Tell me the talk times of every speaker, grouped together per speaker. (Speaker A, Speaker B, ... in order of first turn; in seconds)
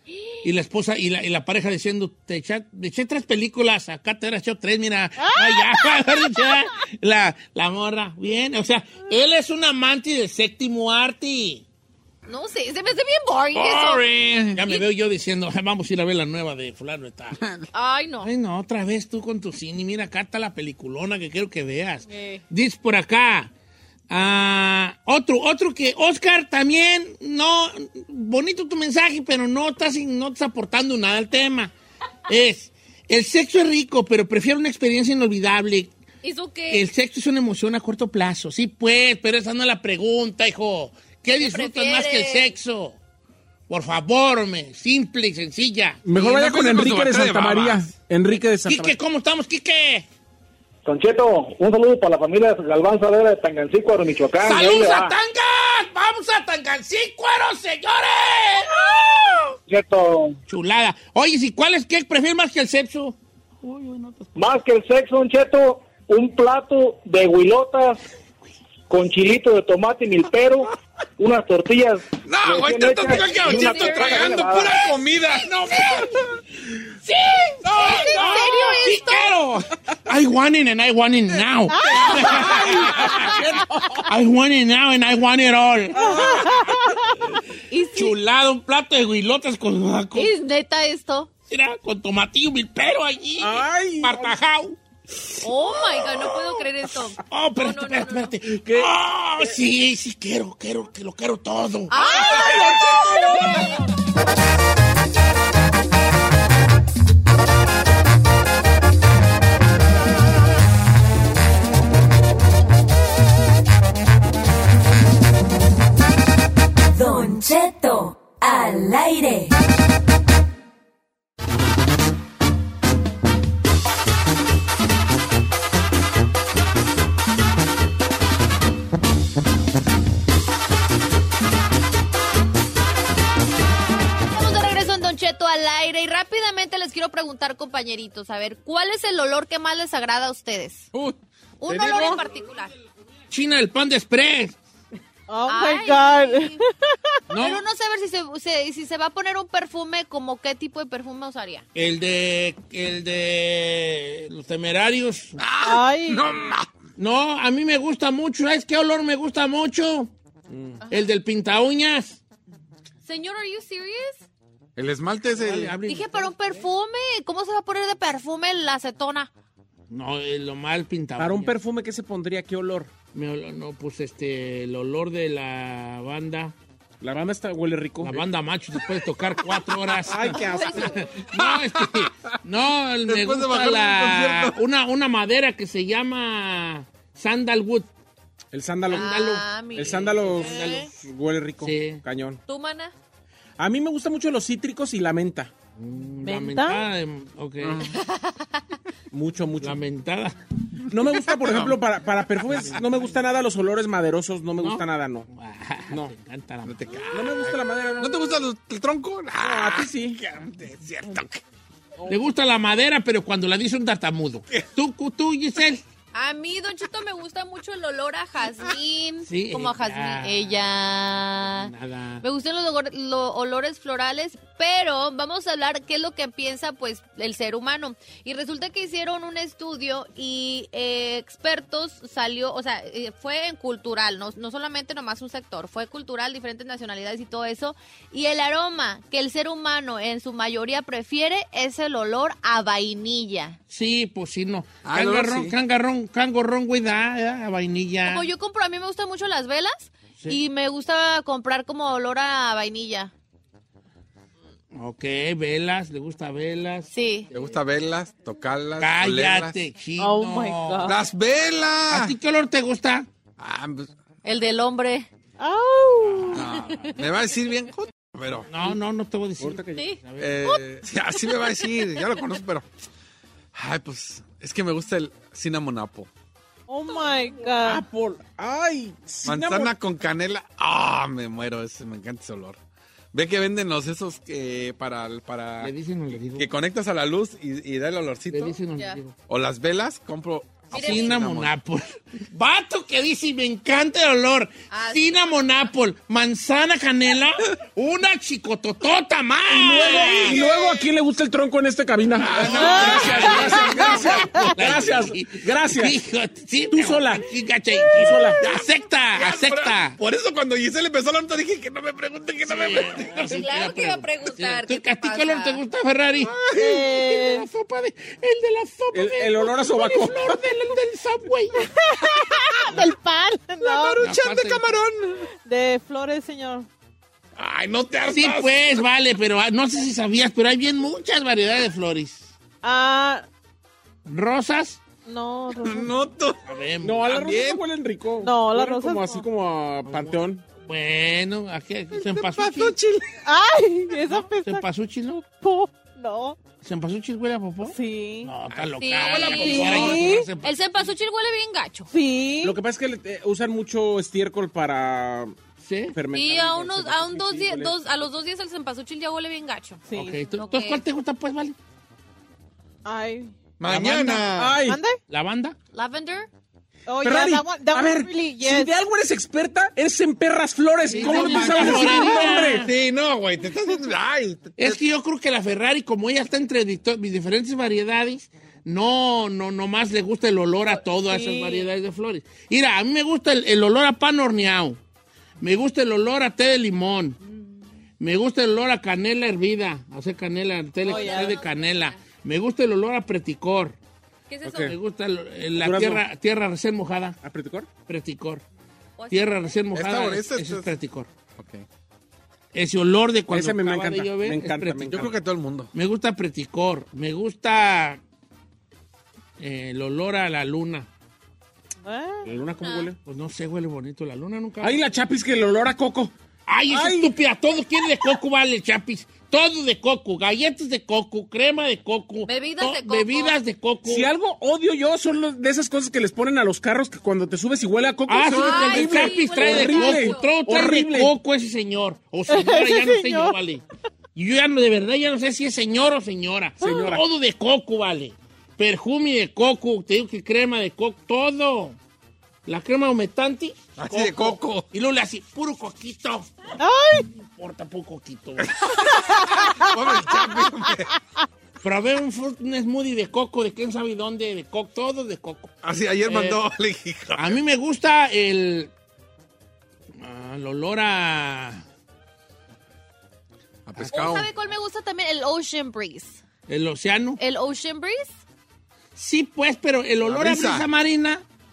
Speaker A: 0.4-11.6, 13.6-17.4, 18.2-23.5, 24.1-31.7, 32.3-35.9, 36.7-43.0, 43.7-46.1, 48.7-50.1, 54.4-59.6, 60.5-64.4, 73.3-73.7, 75.5-76.1, 77.0-83.4, 84.1-86.8, 88.0-90.3, 91.5-94.8, 95.8-102.7, 141.8-142.2, 143.3-144.6, 147.3-147.6, 151.8-155.4, 157.0-160.1, 160.9-162.2, 165.3-166.4, 169.9-171.6, 173.1-176.5, 178.0-187.9, 188.9-190.9, 191.6-192.0, 195.8-197.9, 199.6-200.4, 202.5-202.8, 204.6-206.8, 212.1-215.8, 219.2-220.6, 221.6-222.2, 243.7-248.3, 254.7-256.9, 258.8-260.9, 261.9-263.1, 266.1-266.4, 268.5-270.5, 285.6-286.5, 288.3-289.2, 290.7-300.5, 302.4-310.0, 312.4-321.7, 324.0-324.7, 328.1-332.3, 334.1-334.8, 336.4-337.2, 339.9-342.8, 344.1-345.3, 346.6-350.8, 355.6-356.0, 359.9-361.6, 363.7-364.3, 365.1-365.6, 370.9-372.7, 374.6-384.8, 385.4-387.2, 388.0-393.8, 394.5-397.2, 397.9-398.4, 399.1-401.1, 402.5-405.1, 405.7-408.0, 409.4-410.9, 413.1-415.0, 416.5-424.1, 428.1-433.6, 434.1-441.8, 442.5-448.6, 451.6-455.5, 456.1-456.4, 457.1-458.7, 460.0-461.6, 463.8-464.2, 466.5-467.2, 469.0-471.2
Speaker B: 5.2-6.6, 81.7-82.1, 86.0-87.2, 145.3-146.6, 155.6-156.3, 196.2-196.9, 260.0-261.0, 265.4-266.4, 276.7-277.9, 302.6-304.5, 316.5-317.5, 321.6-324.0, 325.3-326.7, 332.6-333.3, 335.1-335.9, 338.2-339.3, 343.2-344.7, 345.3-346.4, 347.6-348.3, 349.5-350.3, 351.9-352.6, 359.9-360.2, 362.9-363.3, 364.5-365.0, 366.9-368.7, 370.9-372.6, 380.8-381.7, 390.9-391.4, 411.8-412.3, 432.3-433.4, 436.6-436.9, 446.6-447.1, 449.2-449.7
Speaker C: 12.3-14.0, 17.7-18.3, 22.1-22.4, 36.2-36.9, 41.4-42.5, 73.3-74.4, 77.7-79.4, 87.7-88.2, 90.2-91.3, 95.4-98.3, 101.9-103.8, 134.3-140.9, 141.6-142.7, 145.5-146.6, 147.3-151.6, 163.0-164.2, 165.9-169.3, 180.4-181.2, 188.9-190.9, 192.5-192.9, 197.9-198.6, 216.1-243.6, 248.1-253.1, 256.9-257.3, 264.2-265.1, 269.8-270.6, 276.9-277.1, 290.7-291.1, 294.7-295.6, 300.3-300.8, 313.2-315.6, 348.8-351.9, 356.1-360.8, 365.7-366.3, 390.9-392.0, 394.3-394.7, 399.0-399.5, 412.6-412.9, 422.2-423.3, 428.3-430.3, 463.9-466.2, 467.2-468.1
Speaker D: 17.4-17.6, 46.1-47.9, 72.2-76.1, 77.6-78.3, 82.0-83.1, 140.9-142.2, 155.4-156.7, 164.8-165.8, 181.3-182.1, 183.1-184.6, 197.6-197.9, 201.4-201.8, 206.7-211.4, 244.8-245.6, 257.3-259.6, 260.8-262.2, 263.4-263.9, 266.3-268.5, 270.2-272.7, 273.6-276.1, 279.2-282.6, 283.1-285.7, 286.3-288.6, 289.3-291.5, 302.1-304.5, 309.1-313.4, 316.2-316.8, 323.6-325.2, 327.4-328.8, 335.6-336.4, 337.1-337.6, 341.9-343.1, 348.5-350.0, 363.6-364.6, 371.0-374.8, 399.7-400.7, 401.4-401.6, 404.9-405.7, 443.8-444.7, 448.4-450.9, 455.6-457.4, 463.7-464.3, 470.0-470.7
Speaker E: 46.0-49.0, 83.3-84.0, 86.0-86.5, 93.4-94.4, 98.5-99.6, 102.3-103.7, 160.5-160.8, 171.2-172.9, 177.0-178.2, 180.1-181.1, 188.5-192.4, 193.6-195.5, 199.1-199.8, 200.9-205.3, 205.9-206.1, 207.1-208.3, 209.4-210.2, 269.4-269.9, 277.6-279.7, 299.5-306.0, 306.7-307.3, 308.0-308.4, 318.9-320.4, 336.8-340.4, 352.4-355.4, 355.9-357.7, 364.4-364.8, 367.0-372.6, 394.4-394.8, 395.6-396.0, 397.2-397.7, 403.3-405.1, 412.3-413.0, 414.6-416.1, 416.7-417.1, 423.8-431.1, 436.6-437.0
Speaker F: 50.9-55.1, 59.7-60.4, 64.4-68.0, 68.9-74.8
Speaker G: 116.9-119.5